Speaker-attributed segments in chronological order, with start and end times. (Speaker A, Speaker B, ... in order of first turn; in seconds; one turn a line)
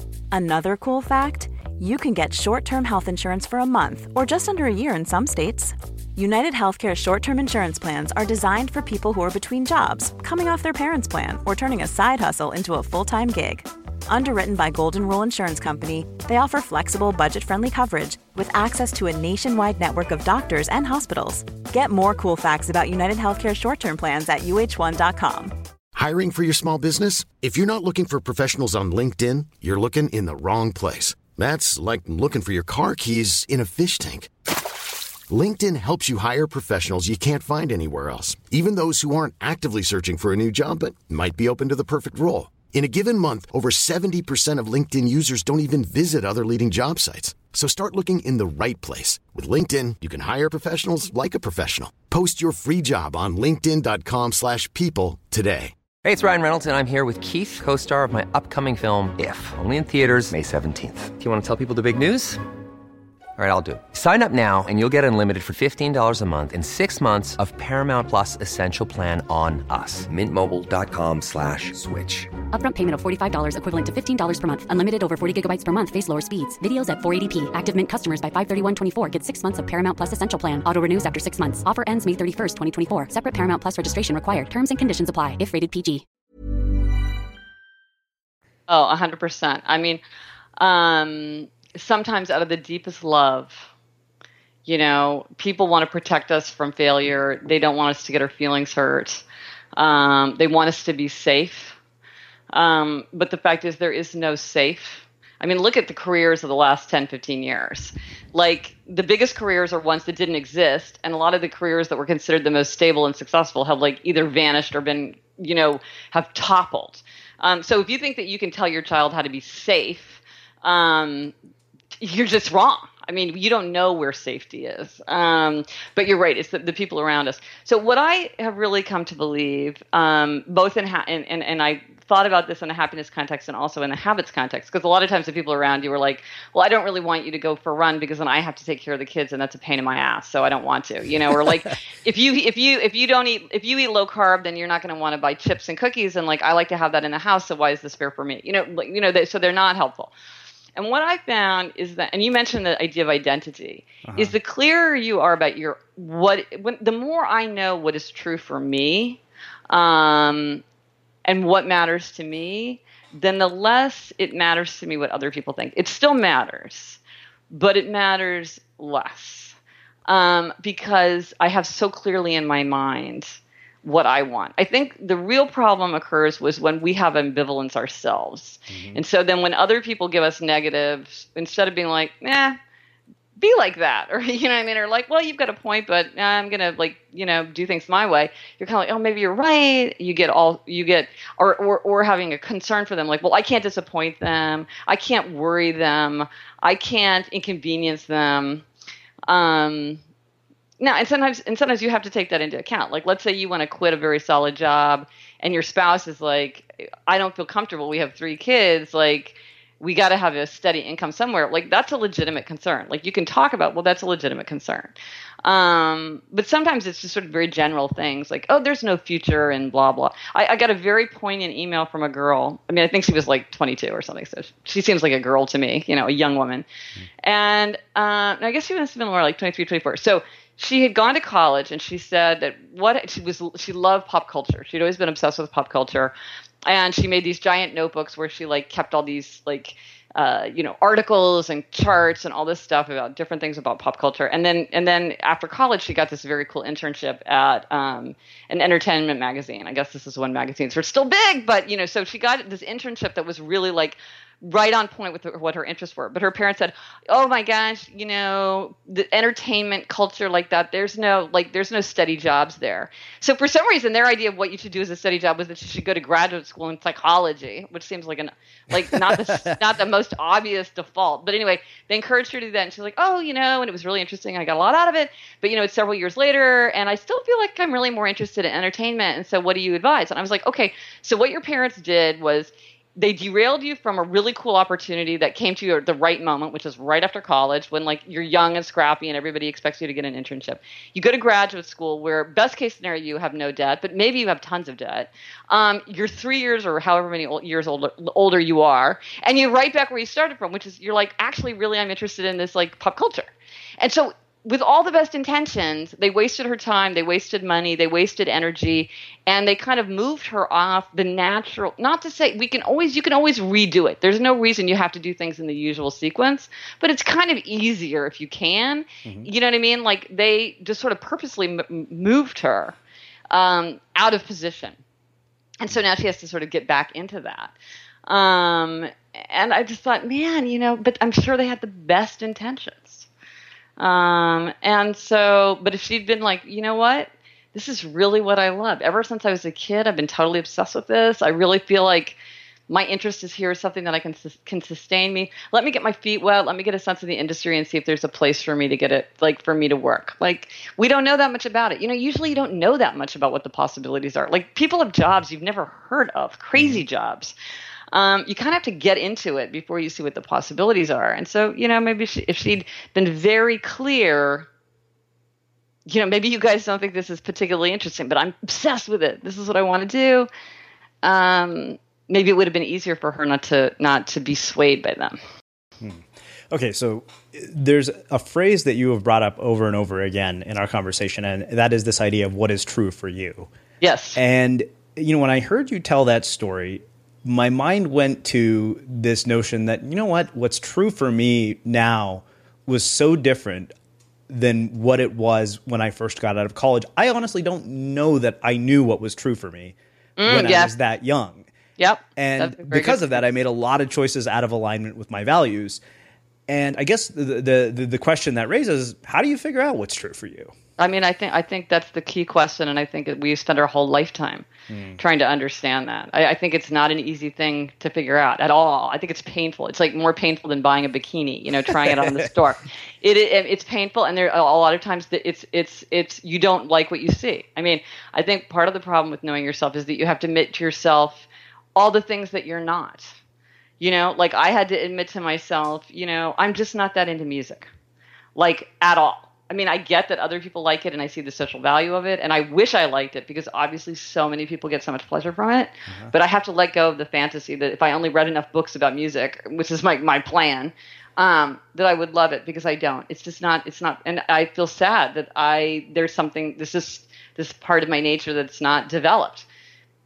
Speaker A: 0.3-25.5
Speaker B: 25.9-34.3
Speaker B: 35.3-55.7
Speaker C: 56.0-62.4
Speaker C: 63.4-72.4
Speaker D: 72.4-86.0
Speaker E: 88.7-90.0
Speaker E: 90.6-93.7
Speaker E: 94.7-99.2
Speaker E: 99.8-101.8
Speaker E: 102.5-121.3
Speaker E: 122.0-150.1
Speaker E: 150.8-160.6
Speaker F: 154.0-154.3
Speaker E: 161.2-167.0
Speaker E: 167.5-169.6
Speaker E: 170.1-182.6
Speaker F: 178.7-179.0
Speaker E: 183.4-198.6
Speaker E: 199.3-200.0
Speaker E: 200.8-226.7
Speaker E: 227.2-236.1
Speaker E: 236.6-322.8
Speaker F: 319.0-319.3
Speaker E: 323.3-324.8
Speaker E: 325.6-327.5
Speaker E: 328.1-333.1
Speaker E: 333.8-357.3
Speaker F: 356.6-356.8
Speaker E: 357.9-364.5
Speaker E: 365.9-370.3
Speaker E: 371.0-375.2
Speaker F: 375.8-383.5
Speaker E: 383.8-384.2
Speaker F: 384.1-393.7
Speaker F: 394.3-401.4
Speaker E: 400.2-400.7
Speaker E: 401.8-403.2
Speaker F: 402.2-405.8
Speaker F: 406.5-410.5
Speaker E: 410.8-414.4
Speaker F: 414.7-415.0
Speaker E: 415.0-433.1
Speaker F: 421.8-422.3
Speaker E: 433.8-437.7
Speaker E: 438.4-459.5